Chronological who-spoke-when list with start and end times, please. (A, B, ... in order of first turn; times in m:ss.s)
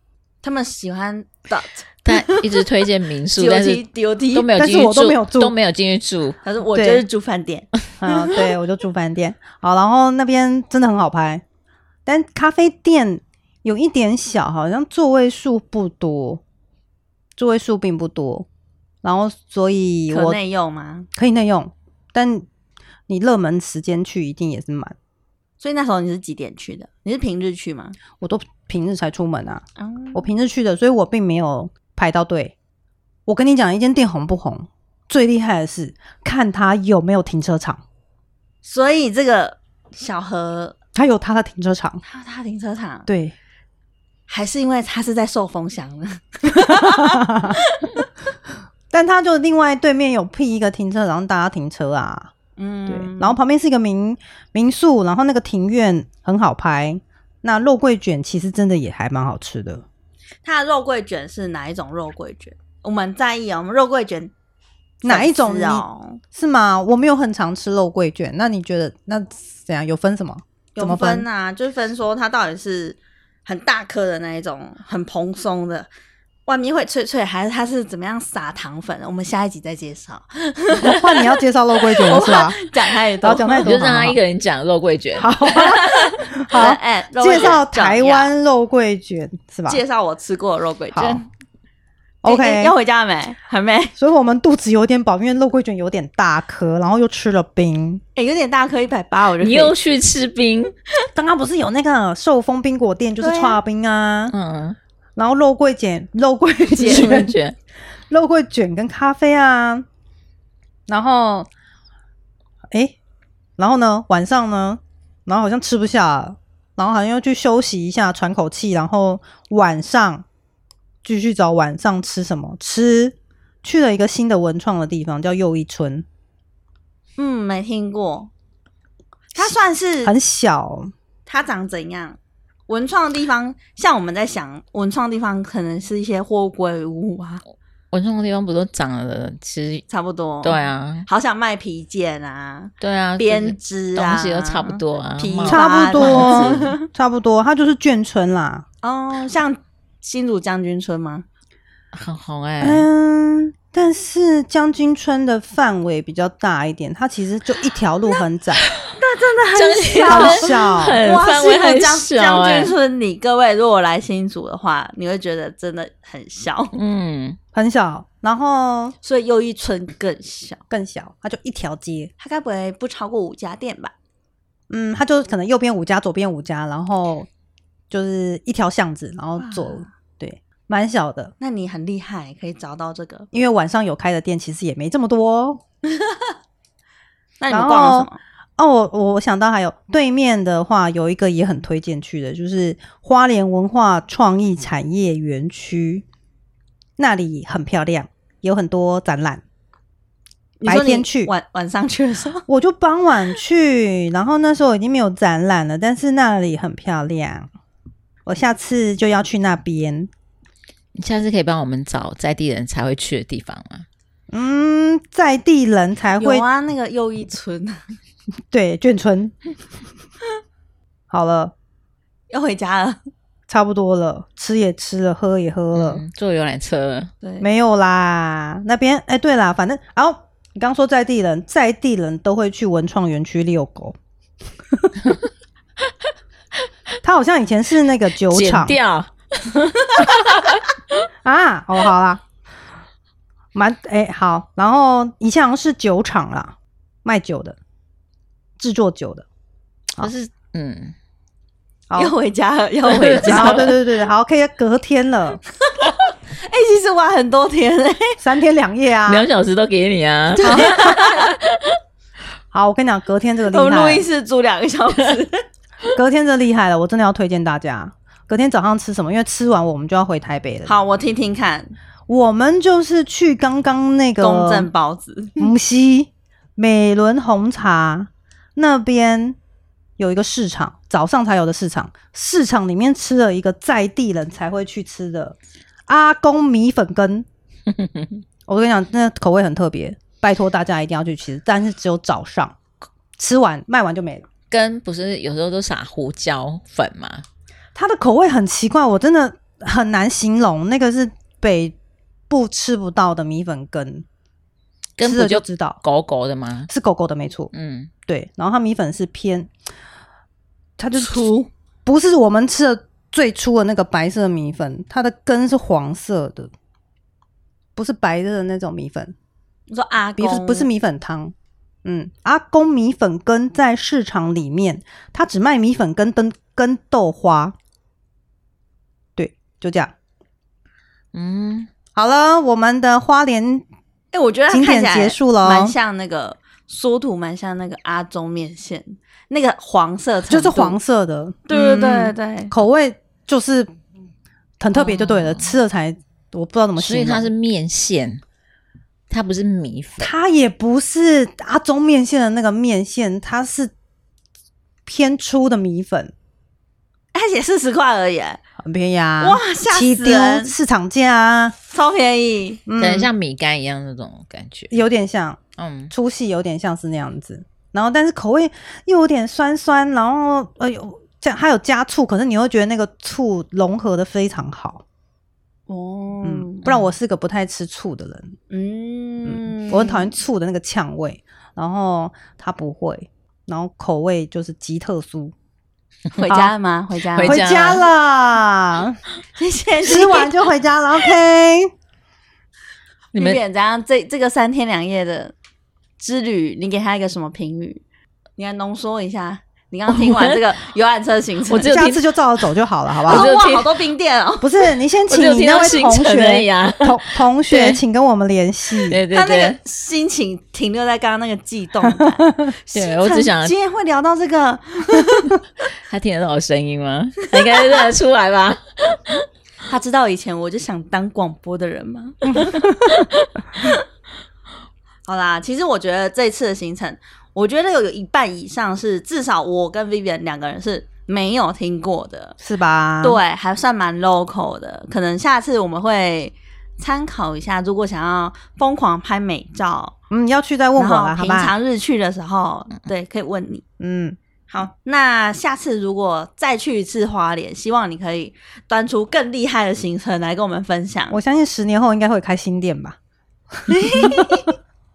0:00.4-0:02.6 A
0:02.0-0:06.4 B
0:03.4-0:04.5 A
0:04.6-0:05.6 C
0:06.4-0:08.4 A
0:06.7-0:07.0 C
0:08.0-0:11.4 C
0:12.1-0:16.4 C
0:17.4-0:18.5 C
0:19.0-0:20.4 C
0:20.1-0:21.1 A
0:21.2-0:22.5 C
0:23.1-0:25.0 C
0:25.6-0:28.0 A
0:28.2-0:32.5 C
0:29.8-0:30.3 A
0:33.3-0:37.8 C
0:38.6-0:40.8 A
0:41.0-0:42.0 C
0:42.0-0:43.1 A
0:43.1-0:43.3 C
0:44.3-0:48.1 A
0:46.5-0:47.6 C
0:48.9-0:52.3 C
0:52.6-0:53.4 A
0:52.9-0:59.8 C
1:00.4-1:04.3 A
1:05.0-1:11.3 C
1:05.0-1:06.2 A
1:10.8-1:15.9 A
1:16.5-1:23.7 A
1:20.8-1:22.7 C
1:23.2-1:24.2 C
1:23.6-1:25.3 B
1:25.2-1:29.8 C
1:25.5-1:28.3 A
1:29.7-1:31.3 A
1:30.9-1:31.2 C
1:32.2-1:32.7 C
1:32.2-1:33.9 A
1:34.0-1:38.0 C
1:38.2-1:39.7 A
1:39.4-1:40.7 B
1:41.2-1:44.3 C
1:43.2-1:43.6 A
1:44.3-1:44.8 B
1:45.2-1:47.3 C
1:46.8-1:47.2 A
1:46.8-1:47.6 B
1:48.1-1:49.8 C
1:50.9-1:51.5 C
1:52.7-1:53.0 C
1:53.6-2:00.2 C
2:01.0-2:06.0 C
2:07.2-2:08.3 A
2:09.3-2:10.2 A
2:10.0-2:10.9 C
2:11.3-2:17.4 A
2:17.9-2:19.8 B
2:19.9-2:26.9 A
2:20.4-2:21.1 B
2:22.8-2:26.7 B
2:25.5-2:28.6 C
2:28.8-2:31.2 A
2:31.9-2:32.9 B
2:32.6-2:38.6 C
2:39.0-2:46.7 A
2:39.5-2:42.7 B
2:40.0-2:41.0 C
2:46.7-2:47.4 B
2:47.5-2:49.0 C
2:49.0-2:50.6 A
2:50.7-2:52.1 C
2:52.2-2:53.9 A
2:54.7-2:57.3 C
2:57.9-3:01.3 C
2:59.4-2:59.8 A
3:01.4-3:03.3 A
3:03.3-3:05.6 C
3:05.9-3:06.3 A
3:07.4-3:08.2 A
3:07.5-3:16.0 C
3:17.0-3:19.4 C
3:20.6-3:22.4 A
3:20.6-3:21.3 C
3:22.5-3:27.5 C
3:28.3-3:30.1 C
3:31.0-3:33.8 B
3:34.3-3:36.4 C
3:36.2-3:38.0 A
3:38.5-3:39.4 C
3:41.1-3:41.5 C
3:42.3-3:43.0 A
3:43.5-3:46.0 C
3:45.7-3:47.1 B
3:47.2-3:47.5 A
3:47.4-3:54.0 C
3:57.0-3:58.8 C
3:58.3-4:00.6 B
4:01.2-4:02.2 C
4:03.5-4:07.6 C
4:08.6-4:09.3 C
4:10.0-4:11.0 B
4:11.9-4:12.2 C
4:12.0-4:13.7 A
4:12.9-4:13.7 B
4:13.2-4:15.4 C
4:15.7-4:18.2 A
4:18.2-4:19.3 C
4:19.1-4:21.8 B
4:20.4-4:21.3 A
4:20.4-4:21.1 C
4:22.5-4:24.0 C
4:23.5-4:25.4 A
4:25.9-4:30.7 C
4:30.7-4:31.7 A
4:32.1-4:34.7 C
4:34.2-4:35.5 A
4:35.4-4:39.4 C
4:40.0-4:45.4 C
4:45.9-4:47.3 C
4:48.5-4:52.6 C
4:53.2-4:54.2 C
4:54.5-4:57.2 B
4:57.8-5:01.8 C
5:02.3-5:04.0 C
5:05.0-5:06.7 B
5:05.0-5:05.8 C
5:06.7-5:07.5 C
5:07.5-5:07.9 B
5:08.1-5:09.5 C
5:10.8-5:11.3 C
5:11.0-5:11.5 A
5:11.8-5:16.5 C
5:17.8-5:19.2 C
5:19.7-5:20.7 A
5:20.2-5:21.3 C
5:21.8-5:27.6 C
5:29.2-5:29.9 C
5:31.1-5:31.7 B
5:32.0-5:33.6 C
5:34.1-5:40.8 A
5:34.5-5:35.8 C
5:40.3-5:43.7 C
5:41.5-5:42.5 A
5:44.6-5:47.3 C
5:44.7-5:45.6 B
5:46.8-5:48.2 B
5:49.1-5:50.1 B
5:50.0-5:53.7 C
5:54.9-5:56.1 C
5:57.1-5:58.4 A
5:58.6-6:01.6 C
5:59.2-6:00.5 A
6:01.7-6:02.6 A
6:02.7-6:03.1 C
6:02.8-6:04.7 B
6:04.7-6:05.4 C
6:05.6-6:05.9 B
6:05.9-6:14.8 C
6:15.7-6:16.6 A
6:16.2-6:18.3 C
6:18.5-6:20.1 A
6:19.2-6:25.3 C
6:26.1-6:27.4 A
6:27.2-6:27.9 B
6:27.2-6:29.0 C
6:29.4-6:30.4 A
6:29.8-6:31.7 C
6:33.1-6:33.4 B
6:33.2-6:35.3 A
6:36.0-6:37.8 A
6:38.4-6:41.8 A
6:39.9-6:40.4 B
6:41.5-6:42.5 B
6:41.5-6:43.3 C
6:43.0-6:43.7 B
6:43.1-6:44.5 A
6:44.4-6:49.0 C
6:45.1-6:47.8 B
6:48.9-6:49.6 B
6:49.1-6:55.4 A
6:52.2-6:52.5 C
6:52.7-6:53.5 B
6:55.9-6:59.3 B
6:57.4-6:57.8 A
6:59.7-7:02.7 A
7:02.6-7:03.0 C
7:02.9-7:03.2 B
7:05.1-7:12.4 A
7:12.4-7:13.2 C
7:13.0-7:20.0 A
7:20.1-7:21.5 C
7:20.8-7:23.6 A
7:23.8-7:24.2 C
7:24.5-7:31.2 A
7:31.1-7:33.0 C
7:33.6-7:34.4 C
7:33.7-7:34.5 A